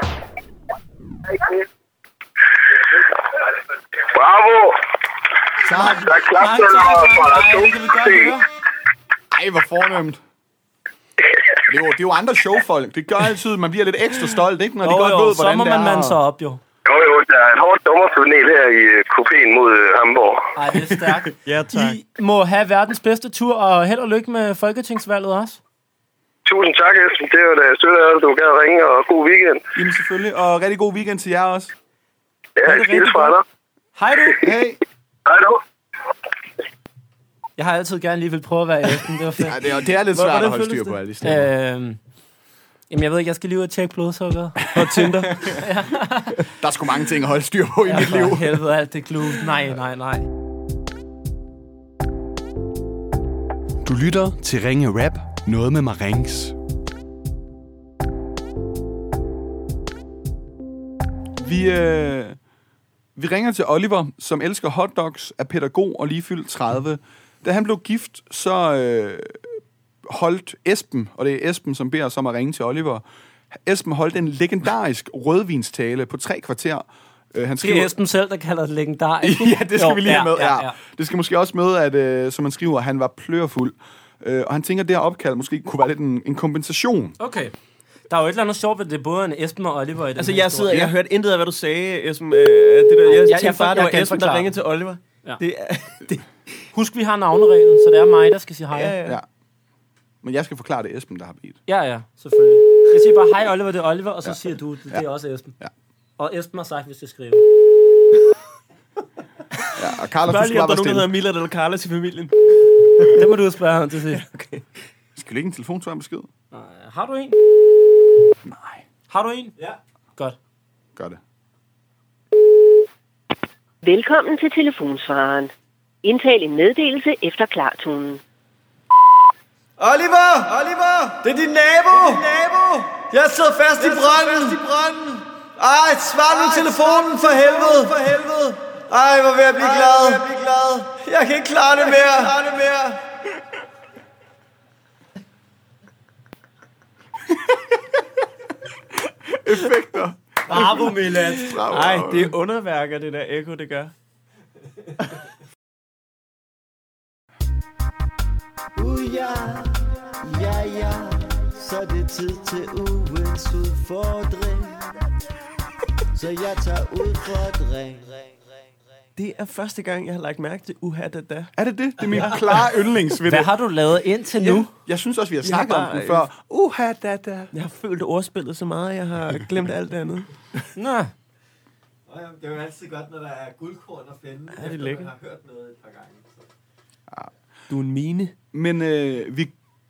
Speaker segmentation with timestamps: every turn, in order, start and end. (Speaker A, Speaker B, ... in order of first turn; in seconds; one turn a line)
Speaker A: 4.1-4.8
Speaker B: 5.6-6.1
Speaker C: 5.8-8.4
Speaker A: 5.9-8.2
Speaker B: 9.3-10.2
Speaker B: 11.7-16.2
Speaker C: 14.8-16.6
Speaker A: 16.9-20.4
Speaker C: 20.6-25.6
Speaker D: 21.4-22.0
Speaker A: 26.4-29.6
Speaker B: 29.8-31.7
Speaker A: 32.6-33.4
Speaker D: 32.6-33.3
Speaker C: 34.0-34.4
Speaker B: 34.4-34.8
Speaker A: 35.3-35.6
Speaker C: 37.6-39.6
Speaker B: 39.4-41.5
Speaker D: 40.1-41.0
Speaker C: 41.2-42.0
Speaker C: 42.9-44.6
Speaker B: 44.6-45.6
Speaker D: 44.7-45.4
Speaker C: 45.5-46.4
Speaker B: 46.6-48.6
Speaker C: 47.9-50.2
Speaker B: 53.8-56.5
Speaker B: 61.4-62.4
Speaker B: 63.1-69.4
Speaker B: 70.1-73.0
Speaker B: 73.6-77.9
Speaker C: 77.6-80.8
Speaker B: 79.2-87.1
Speaker C: 87.2-87.5
Speaker C: 88.1-90.8
Speaker D: 90.2-96.2
Speaker C: 93.1-94.5
Speaker C: 96.7-99.0
Speaker D: 98.7-99.2
Speaker B: 100.2-101.6
Speaker C: 101.7-105.5
Speaker C: 106.2-107.4
Speaker B: 109.8-111.1
Speaker D: 110.2-112.7
Speaker C: 113.1-114.2
Speaker D: 114.1-114.6
Speaker B: 115.2-116.3
Speaker C: 116.5-117.4
Speaker B: 118.5-118.8
Speaker C: 119.1-119.5
Speaker E: 123.8-125.5
Speaker E: 126.0-128.2
Speaker F: 129.8-143.0
Speaker B: 149.3-150.9
Speaker C: 150.5-151.6
Speaker D: 150.6-153.9
Speaker B: 151.4-152.3
Speaker F: 158.8-165.0
Speaker F: 166.1-168.4
Speaker D: 169.2-171.5
Speaker B: 171.6-173.5
Speaker C: 173.3-174.7
Speaker B: 174.8-177.5
Speaker D: 175.4-176.3
Speaker D: 177.5-180.3
Speaker C: 180.8-181.1
Speaker F: 182.1-186.5
Speaker D: 184.5-185.1
Speaker D: 187.7-188.3
Speaker B: 188.5-189.5